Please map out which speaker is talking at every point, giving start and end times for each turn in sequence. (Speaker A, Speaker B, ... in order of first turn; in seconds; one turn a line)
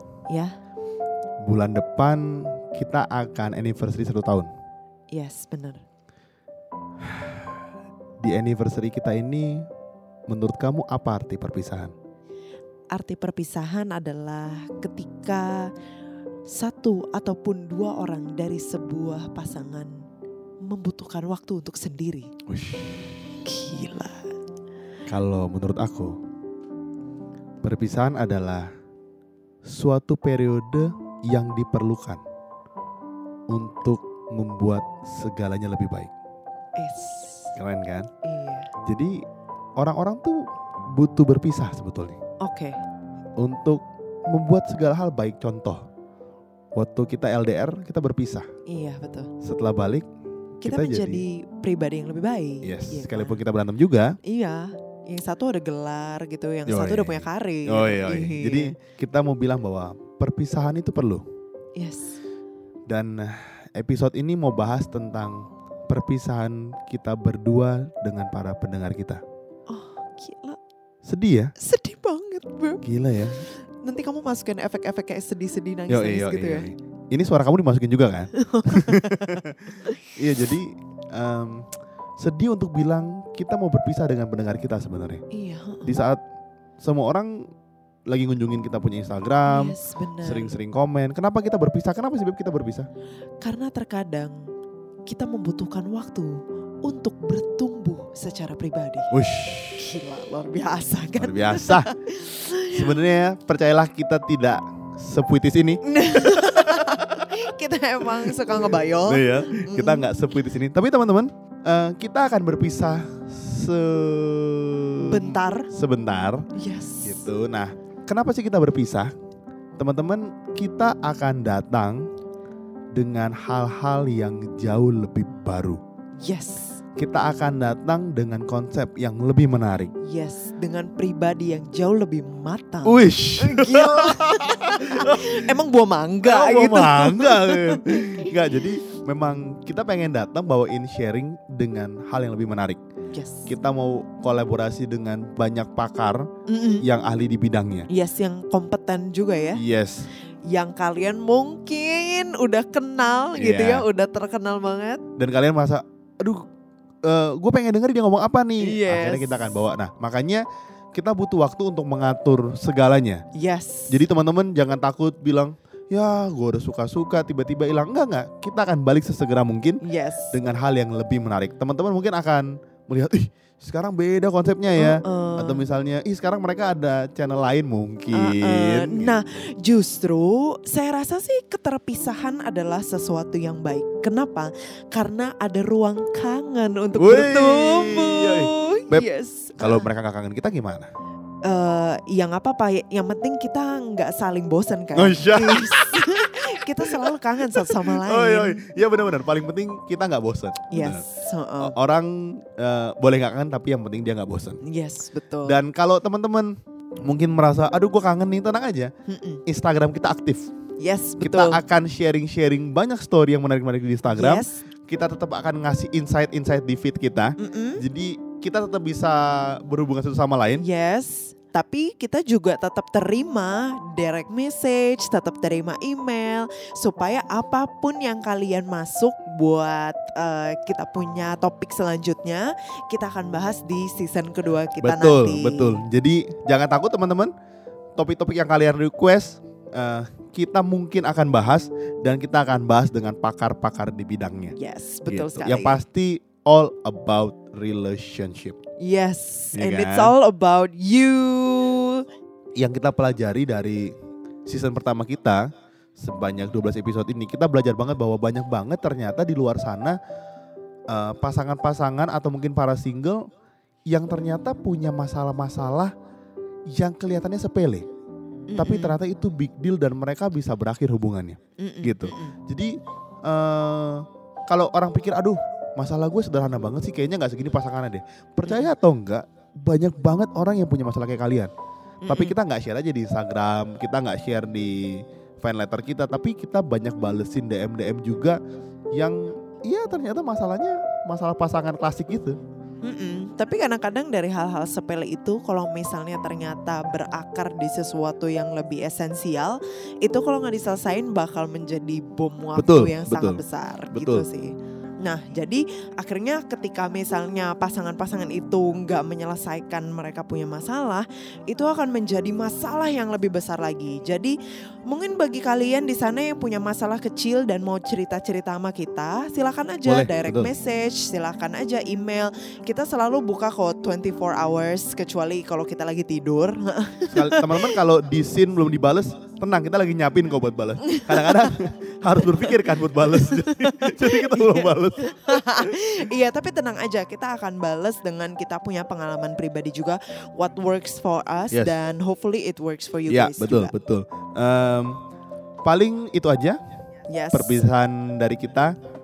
Speaker A: 0.3-0.6
Speaker B: 1.4-4.5
Speaker A: 5.1-5.8
Speaker B: 8.2-9.7
Speaker B: 10.3-11.9
Speaker A: 12.9-15.7
Speaker A: 16.5-20.0
Speaker A: 20.7-22.3
Speaker B: 22.5-23.0
Speaker A: 23.4-24.2
Speaker B: 25.1-26.2
Speaker B: 27.6-28.7
Speaker B: 29.6-32.2
Speaker B: 33.5-36.1
Speaker A: 36.8-37.5
Speaker B: 37.5-38.1
Speaker A: 38.2-38.7
Speaker B: 38.8-39.2
Speaker B: 39.8-42.2
Speaker A: 42.4-42.8
Speaker B: 43.4-45.8
Speaker B: 46.7-48.5
Speaker A: 48.7-49.3
Speaker B: 49.4-50.0
Speaker B: 50.6-51.2
Speaker A: 50.6-53.4
Speaker B: 52.6-54.1
Speaker A: 54.2-58.7
Speaker B: 56.6-61.2
Speaker A: 61.8-62.2
Speaker B: 62.9-69.2
Speaker A: 69.7-70.6
Speaker B: 71.0-71.5
Speaker A: 71.6-72.9
Speaker B: 72.8-73.4
Speaker A: 73.4-76.7
Speaker B: 75.9-81.6
Speaker A: 78.3-80.0
Speaker B: 82.2-85.2
Speaker A: 85.3-85.9
Speaker B: 85.8-86.2
Speaker B: 86.8-87.3
Speaker B: 88.1-92.9
Speaker A: 89.4-90.6
Speaker A: 93.4-94.5
Speaker A: 95.0-99.1
Speaker B: 99.1-99.8
Speaker A: 99.7-103.0
Speaker B: 101.2-101.9
Speaker B: 102.7-107.3
Speaker A: 105.8-110.1
Speaker B: 108.9-116.5
Speaker A: 115.1-115.7
Speaker A: 116.5-117.3
Speaker B: 117.0-119.1
Speaker B: 119.8-122.1
Speaker B: 122.9-125.8
Speaker A: 126.2-126.8
Speaker B: 127.0-129.9
Speaker A: 130.0-138.3
Speaker B: 132.8-135.4
Speaker B: 136.2-142.8
Speaker A: 143.1-143.5
Speaker B: 143.5-146.3
Speaker A: 146.5-146.8
Speaker B: 146.8-147.9
Speaker A: 147.9-149.6
Speaker B: 149.5-150.1
Speaker A: 150.5-155.0
Speaker B: 153.4-153.8
Speaker B: 155.2-156.5
Speaker B: 157.0-163.2
Speaker A: 158.6-159.5
Speaker A: 163.3-164.0
Speaker B: 163.9-169.8
Speaker A: 169.8-170.3
Speaker B: 170.3-179.2
Speaker A: 174.8-175.7
Speaker A: 178.1-189.9
Speaker B: 186.9-189.1
Speaker B: 189.6-190.9
Speaker A: 191.4-198.6
Speaker B: 194.9-201.1
Speaker A: 200.7-201.7
Speaker B: 201.6-204.6
Speaker A: 204.6-205.6
Speaker B: 205.4-206.5
Speaker B: 207.0-208.9
Speaker A: 209.1-209.4
Speaker B: 209.4-210.5
Speaker A: 210.8-211.6
Speaker B: 211.2-220.6
Speaker A: 214.1-214.6
Speaker A: 217.4-217.8
Speaker A: 220.6-235.8
Speaker B: 234.8-237.3
Speaker B: 238.0-244.6
Speaker A: 244.6-245.8
Speaker B: 245.1-248.6
Speaker A: 248.8-252.0
Speaker B: 249.5-250.1
Speaker B: 252.6-253.9
Speaker B: 254.4-260.0
Speaker B: 260.9-263.3
Speaker B: 263.9-265.9
Speaker B: 266.7-267.9
Speaker A: 268.5-269.0
Speaker B: 268.6-272.7
Speaker A: 271.6-272.4
Speaker B: 273.2-281.5
Speaker A: 278.4-278.7
Speaker A: 282.0-282.4
Speaker B: 282.1-288.4
Speaker B: 288.9-292.4
Speaker A: 292.8-314.4
Speaker B: 302.5-304.2
Speaker A: 314.9-327.7
Speaker B: 319.8-320.5
Speaker B: 327.1-335.1
Speaker A: 330.9-331.3
Speaker A: 333.3-343.7
Speaker B: 343.1-345.0
Speaker B: 345.6-346.6
Speaker A: 347.1-347.6
Speaker B: 347.3-348.7